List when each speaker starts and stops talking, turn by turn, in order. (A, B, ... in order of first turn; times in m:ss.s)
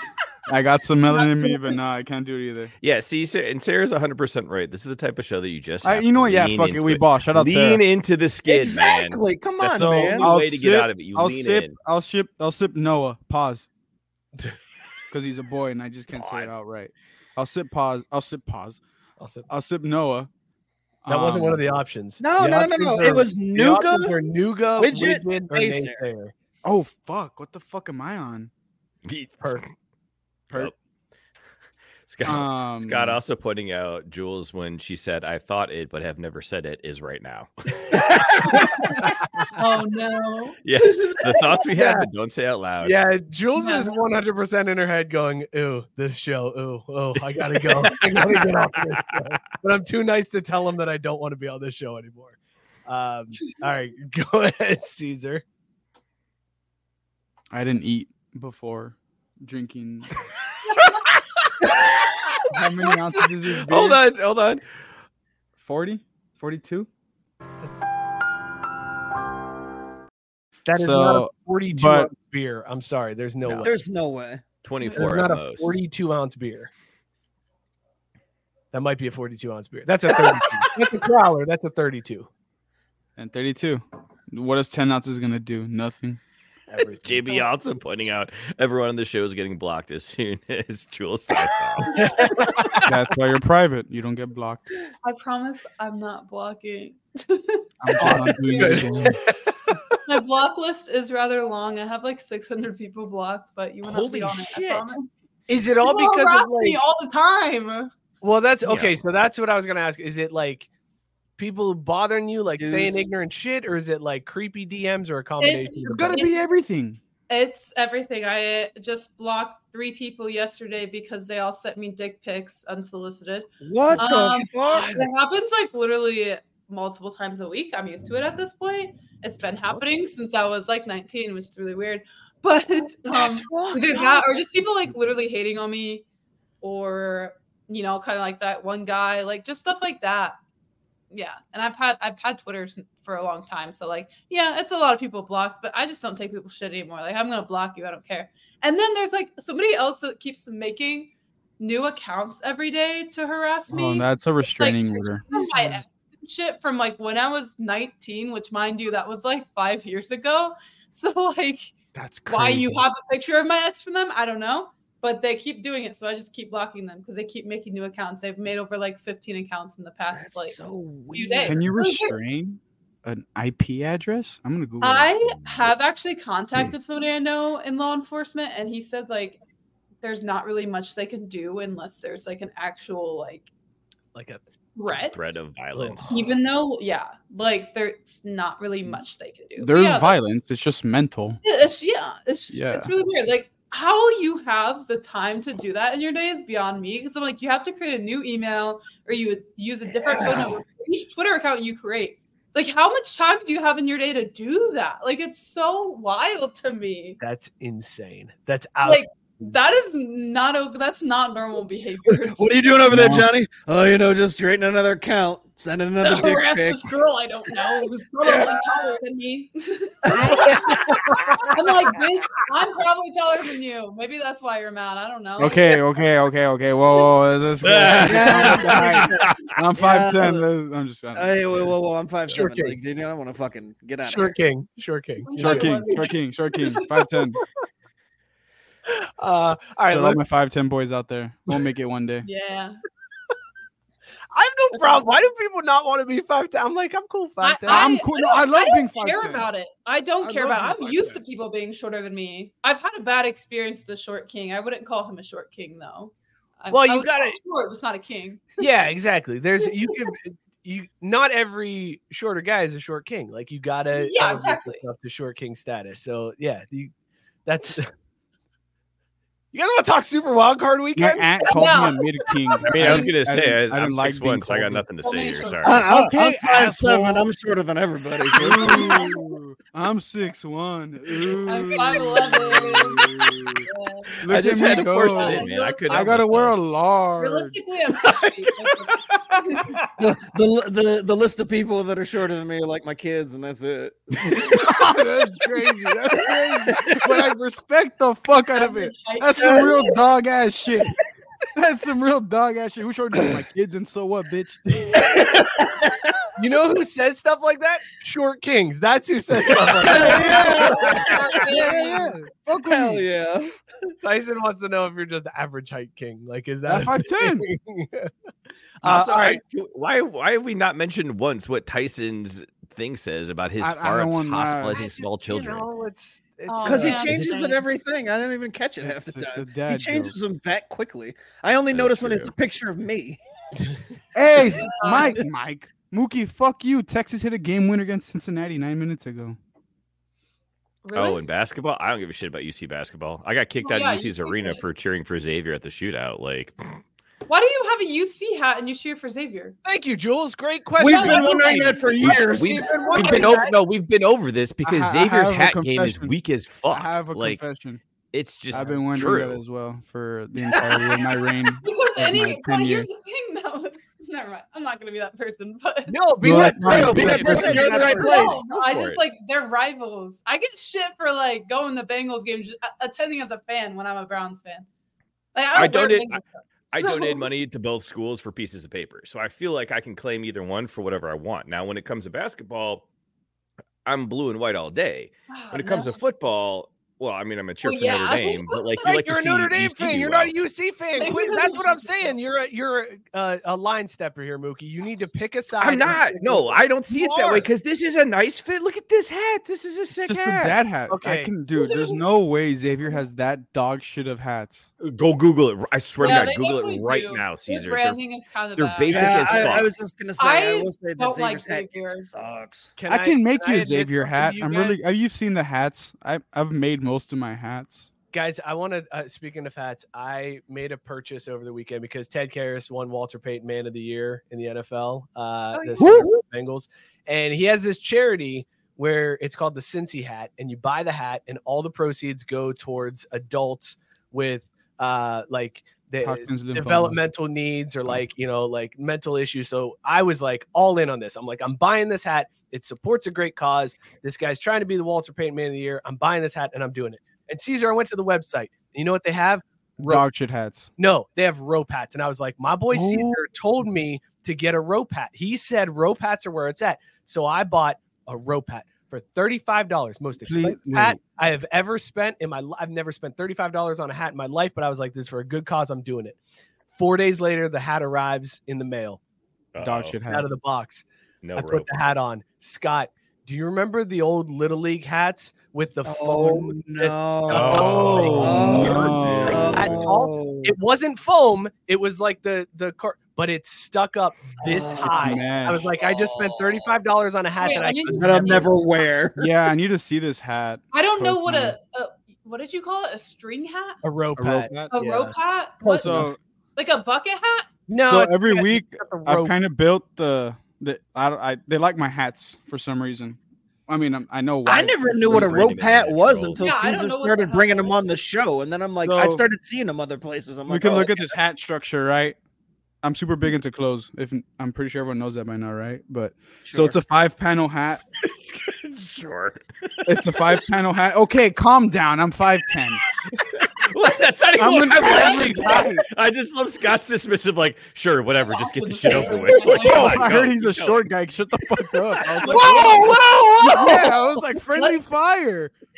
0:00.5-0:02.7 A
0:01.1-0:01.8 B
0:02.8-0:11.8 C
0:05.8-0:07.8 A
0:08.5-0:10.3 D
0:09.6-0:13.7 A
0:15.1-0:18.8 A
0:16.1-0:16.6 C
0:19.2-0:19.5 E
0:19.5-0:20.3 A
0:21.0-0:21.6 A
0:21.1-0:26.3 E
0:22.2-0:24.2 D
0:24.8-0:26.0 D
0:26.6-0:28.5 A
0:29.0-0:29.7 C
0:32.1-0:39.4 C
0:32.2-0:33.2 A
0:37.9-0:39.5 E
0:38.7-0:41.6 B
0:40.6-0:43.0 C
0:41.7-0:42.1 E
0:42.8-0:55.4 E
0:43.5-0:44.0 B
0:47.6-0:48.5 C
0:57.5-1:00.1 A
1:02.5-1:04.0 A
1:03.6-1:04.6 C
1:05.6-1:06.9 A
1:10.6-1:13.8 E
1:10.7-1:12.1 A
1:13.4-1:13.7 C
1:13.6-1:14.4 D
1:14.6-1:15.8 C
1:14.8-1:15.2 B
1:14.9-1:16.7 E
1:18.7-1:22.3 E
1:23.2-1:26.2 A
1:26.7-1:27.5 E
1:27.0-1:32.9 C
1:31.8-1:32.5 B
1:32.0-1:32.8 E
1:32.8-1:34.6 A
1:35.0-1:39.0 B
1:37.8-1:39.2 A
1:38.0-1:39.8 E
1:40.0-1:45.1 B
1:43.8-1:45.0 C
1:45.5-1:46.8 E
1:45.8-1:47.9 B
1:48.2-1:50.7 E
1:48.6-1:49.0 C
1:51.4-1:56.2 E
1:52.6-1:53.1 D
1:55.4-1:56.4 B
1:55.8-1:57.0 A
1:57.3-2:16.0 B
2:03.6-2:05.1 D
2:13.1-2:14.3 D
2:16.6-2:20.4 B
2:21.1-2:41.7 B
2:33.7-2:35.7 A
2:35.3-2:35.6 D
2:41.9-2:42.8 C
2:42.3-2:50.6 B
2:50.1-2:51.6 D
2:51.1-2:52.2 B
2:51.4-2:55.1 A
2:54.8-2:59.4 B
2:55.4-2:55.7 C
3:00.0-3:03.5 B
3:04.1-3:04.4 E
3:04.8-3:05.4 B
3:05.1-3:06.1 C
3:05.7-3:06.2 E
3:06.1-3:10.2 B
3:09.6-3:11.4 A
3:11.4-3:27.2 B
3:12.5-3:12.9 A
3:20.0-3:20.6 D
3:27.2-3:29.0 E
3:28.8-3:32.6 B
3:32.1-3:36.9 D
3:32.8-3:33.3 A
3:36.0-3:40.9 B
3:37.7-3:38.8 D
3:40.1-3:41.0 D
3:41.5-3:45.7 B
3:45.4-3:51.4 A
3:47.6-3:49.4 C
3:47.8-3:50.5 D
3:51.1-3:54.3 D
3:52.3-3:52.8 E
3:54.0-3:56.1 E
3:55.2-3:57.1 B
3:55.4-3:57.4 A
3:58.9-4:00.2 E
3:59.9-4:02.2 A
4:02.2-4:02.8 B
4:04.3-4:07.9 E
4:07.4-4:18.6 B
4:07.7-4:09.5 A
4:16.7-4:17.4 E
4:18.6-4:26.9 E
4:23.9-4:24.8 B
4:27.4-4:27.9 E
4:29.5-4:31.9 E
4:31.0-4:34.8 A
4:31.5-4:33.1 B
4:32.7-4:35.9 C
4:35.0-4:35.7 B
4:35.6-4:39.1 D
4:35.8-4:37.3 A
4:38.3-4:43.6 A
4:38.4-4:39.4 B
4:41.4-4:46.1 B
4:44.2-4:47.6 A
4:44.3-4:46.6 C
4:47.2-4:49.8 B
4:50.0-4:54.8 D
4:54.3-5:00.9 A
4:58.5-5:00.0 B
5:01.5-5:05.1 A
5:05.0-5:06.1 D
5:06.4-5:11.1 E
5:09.8-5:13.5 D
5:10.0-5:12.1 B
5:11.5-5:13.0 A
5:14.0-5:18.1 E
5:16.6-5:17.4 A
5:18.8-5:19.4 E
5:18.8-5:25.7 C
5:23.6-5:24.8 A
5:24.8-5:27.4 E
5:26.5-5:27.6 B
5:26.6-5:33.2 D
5:28.8-5:30.2 A
5:31.7-5:32.3 C
5:34.1-5:39.4 A
5:34.6-5:35.2 B
5:40.8-5:41.2 B
5:40.9-5:46.6 C
5:43.6-5:44.6 B
5:47.3-5:49.6 B
5:49.6-5:53.4 E
5:50.8-5:53.0 D
5:50.9-5:53.6 B
5:52.3-5:57.4 C
5:54.6-5:56.1 A
5:56.7-5:57.8 A
5:58.1-5:59.4 C
5:58.5-6:02.9 A
6:01.6-6:06.0 B
6:05.9-6:08.4 E
6:06.2-6:07.7 A
6:06.6-6:08.4 D
6:07.3-6:14.7 B
6:08.5-6:09.0 C
6:15.3-6:17.3 B
6:15.5-6:16.2 C
6:16.7-6:22.8 C
6:23.8-6:30.3 C
6:25.3-6:26.0 B
6:27.6-6:28.8 B
6:28.8-6:37.5 E
6:31.0-6:31.9 B
6:35.6-6:40.6 C
6:40.0-6:44.7 A
6:40.9-6:41.3 E
6:41.6-6:42.0 B
6:44.8-6:48.0 C
6:46.0-6:49.6 B
6:48.6-6:49.7 C
6:48.9-6:52.7 D
6:50.2-6:52.1 B
6:52.8-6:54.8 E
6:52.9-6:57.9 A
6:58.1-7:30.0 E
7:05.5-7:05.9 B
7:05.8-7:06.2 D
7:16.0-7:17.0 A
7:29.8-7:30.7 A
7:30.8-7:46.2 E
7:32.7-7:33.2 A
7:40.2-7:41.0 A
7:46.7-7:49.0 E
7:49.5-7:50.0 C
7:49.6-7:50.3 A
7:50.0-7:58.9 E
7:51.2-7:51.7 C
7:55.8-8:00.5 D
7:57.3-7:59.8 C
7:58.0-7:59.8 A
7:59.5-8:08.6 E
8:04.4-8:05.2 D
8:04.8-8:05.7 A
8:05.8-8:06.7 D
8:07.4-8:08.6 B
8:07.9-8:09.2 D
8:09.2-8:11.6 A
8:10.7-8:13.8 B
8:13.8-8:16.1 E
8:14.2-8:14.7 A
8:14.7-8:16.0 B
8:15.6-8:16.2 A
8:16.6-8:17.5 B
8:17.7-8:19.4 E
8:17.8-8:24.8 A
8:24.4-8:31.1 D
8:25.0-8:26.4 C
8:26.4-8:27.7 B
8:28.8-8:29.2 A
8:30.4-8:32.2 A
8:32.8-8:37.8 A
8:36.4-8:36.8 D
8:38.0-8:39.4 C
8:39.8-8:42.8 A
8:43.1-8:50.9 C
8:44.4-8:45.8 A
8:44.9-8:45.2 D
8:48.3-8:50.1 B
8:49.3-8:55.5 A
8:52.1-8:53.2 B
8:52.3-8:54.1 D
8:54.5-8:54.8 B